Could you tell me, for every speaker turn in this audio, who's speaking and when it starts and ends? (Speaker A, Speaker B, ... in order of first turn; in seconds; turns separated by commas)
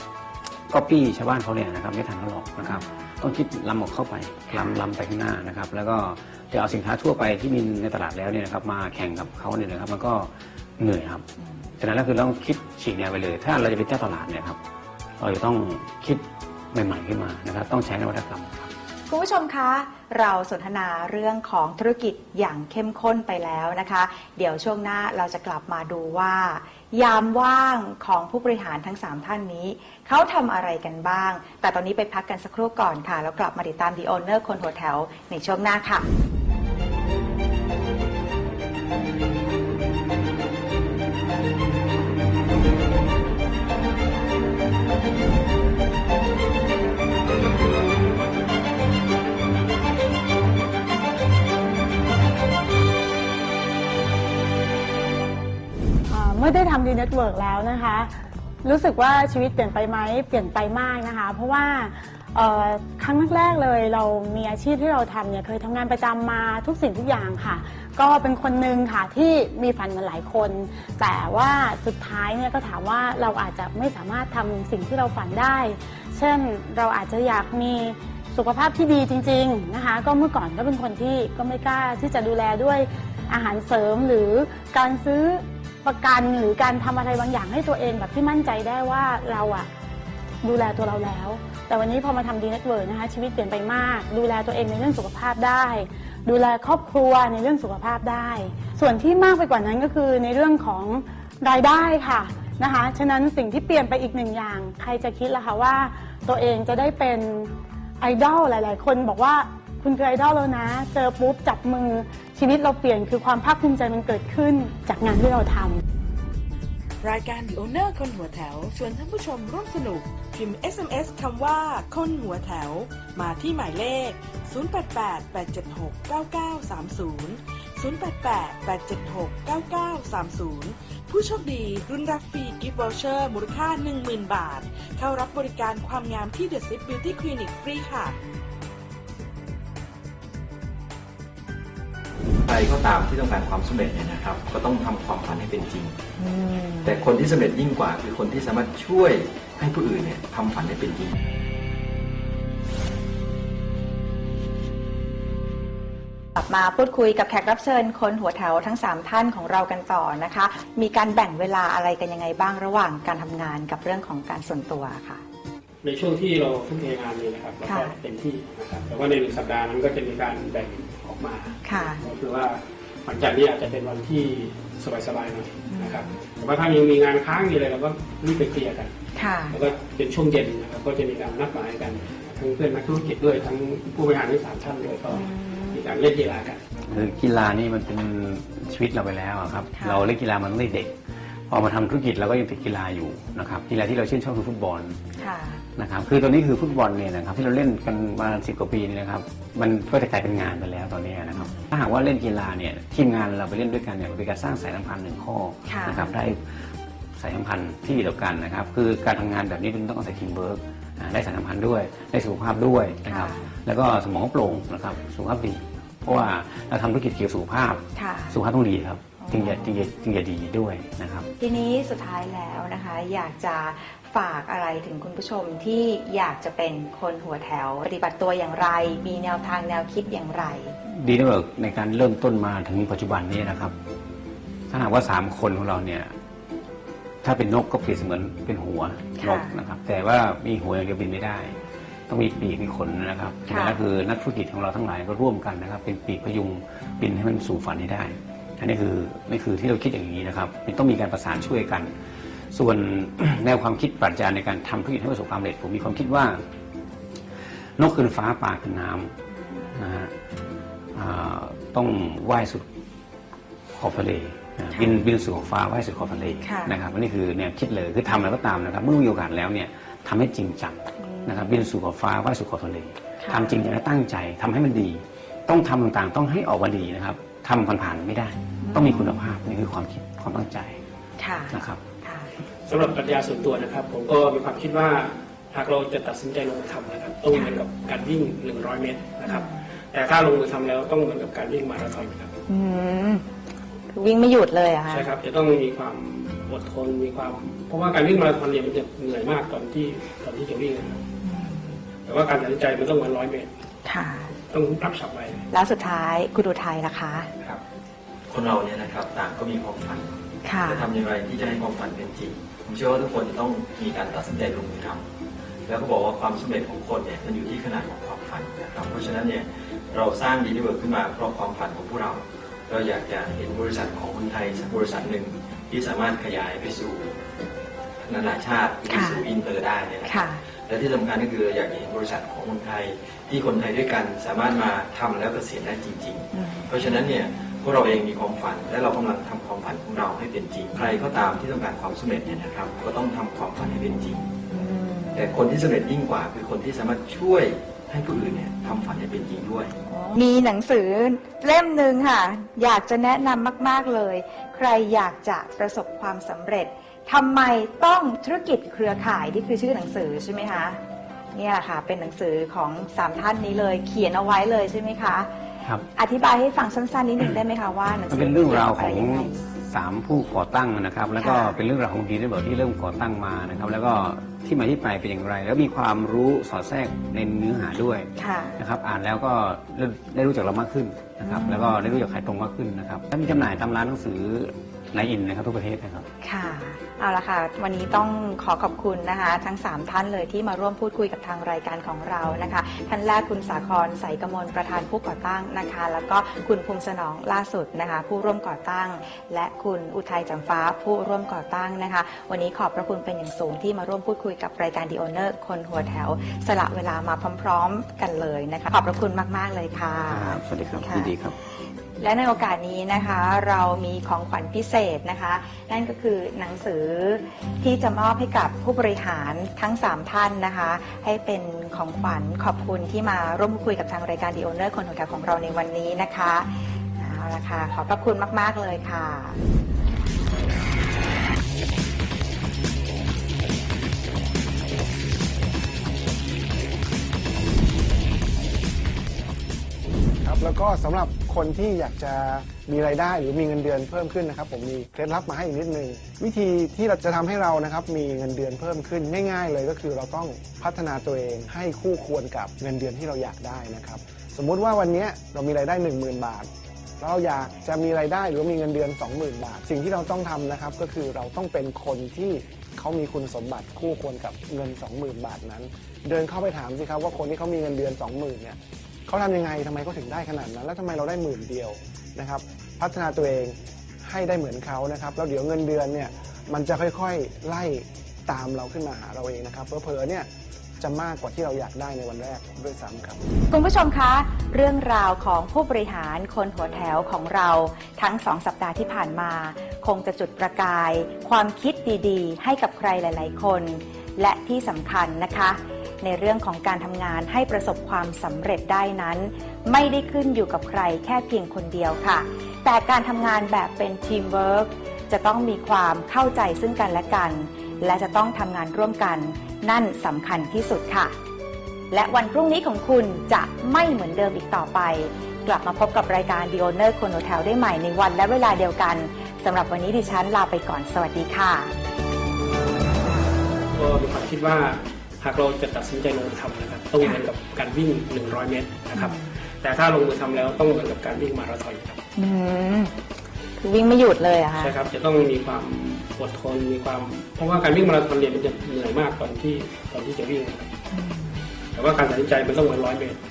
Speaker A: 0.7-11.2, Speaker B: 2.6-3.0, Speaker B: 4.5-4.8, Speaker B: 11.4-11.7, Speaker A: 11.8-14.6, Speaker A: 15.2-18.7, Speaker B: 19.1-36.0, Speaker C: 56.1-58.1, Speaker C: 58.6-89.7, Speaker C: 90.4-115.8, Speaker D: 117.0-138.2, Speaker E: 142.4-146.0, Speaker B: 146.2-146.9, Speaker E: 146.8-151.1, Speaker B: 156.4-165.2, Speaker F: 165.8-178.9, Speaker B: 167.6-167.9, Speaker B: 171.6-172.0, Speaker B: 175.7-176.2, Speaker B: 179.1-179.6, Speaker F: 179.5-186.6, Speaker B: 185.1-185.8, Speaker A: 186.9-191.0, Speaker B: 189.7-190.1, Speaker A: 191.5-195.0, Speaker B: 195.2-195.6, Speaker A: 195.8-206.4, Speaker B: 205.7-206.1, Speaker A: 207.2-221.3, Speaker B: 213.1-213.4, Speaker B: 217.9-218.4, Speaker B: 219.2-219.7, Speaker B: 221.4-230.8, Speaker A: 230.8-233.7, Speaker A: 234.7-236.1, Speaker A: 237.2-241.6, Speaker B: 239.2-239.5, Speaker A: 242.1-251.9, Speaker B: 243.5-243.8, Speaker A: 252.5-256.4, Speaker A: 257.8-259.1, Speaker A: 259.8-260.1, Speaker A: 260.9-262.6, Speaker A: 263.7-280.8, Speaker B: 266.4-266.7, Speaker B: 271.0-271.4, Speaker B: 273.2-273.6, Speaker B: 278.6-279.2, Speaker B: 281.2-282.3, Speaker A: 281.5-281.8, Speaker F: 282.6-292.3, Speaker B: 289.2-289.6, Speaker B: 292.5-293.2, Speaker B: 293.9-295.1, Speaker F: 294.9-301.0, Speaker B: 301.2-301.8, Speaker F: 302.1-303.5, Speaker B: 303.8-304.3, Speaker F: 304.5-305.4, Speaker B: 305.5-307.3, Speaker E: 308.3-315.0, Speaker B: 310.4-310.9, Speaker E: 315.6-327.2, Speaker E: 328.0-344.3, Speaker B: 328.9-329.2, Speaker B: 330.0-330.4, Speaker B: 336.3-336.7, Speaker B: 344.5-345.3, Speaker E: 345.1-349.7, Speaker B: 349.9-360.8, Speaker B: 361.3-365.3, Speaker B: 365.9-369.4, Speaker A: 368.1-386.1, Speaker B: 371.2-371.6, Speaker B: 378.2-378.6, Speaker B: 381.2-381.9, Speaker B: 386.2-411.1, Speaker A: 410.1-411.3, Speaker B: 412.0-429.4, Speaker G: 440.2-456.5, Speaker G: 457.0-480.3, Speaker G: 480.8-483.2, Speaker B: 483.5-511.1, Speaker B: 511.9-521.7, Speaker F: 523.7-532.0, Speaker B: 528.9-529.3, Speaker B: 532.1-532.9, Speaker B: 533.6-534.7, Speaker F: 534.5-540.7, Speaker B: 540.9-541.5, Speaker F: 541.7-543.2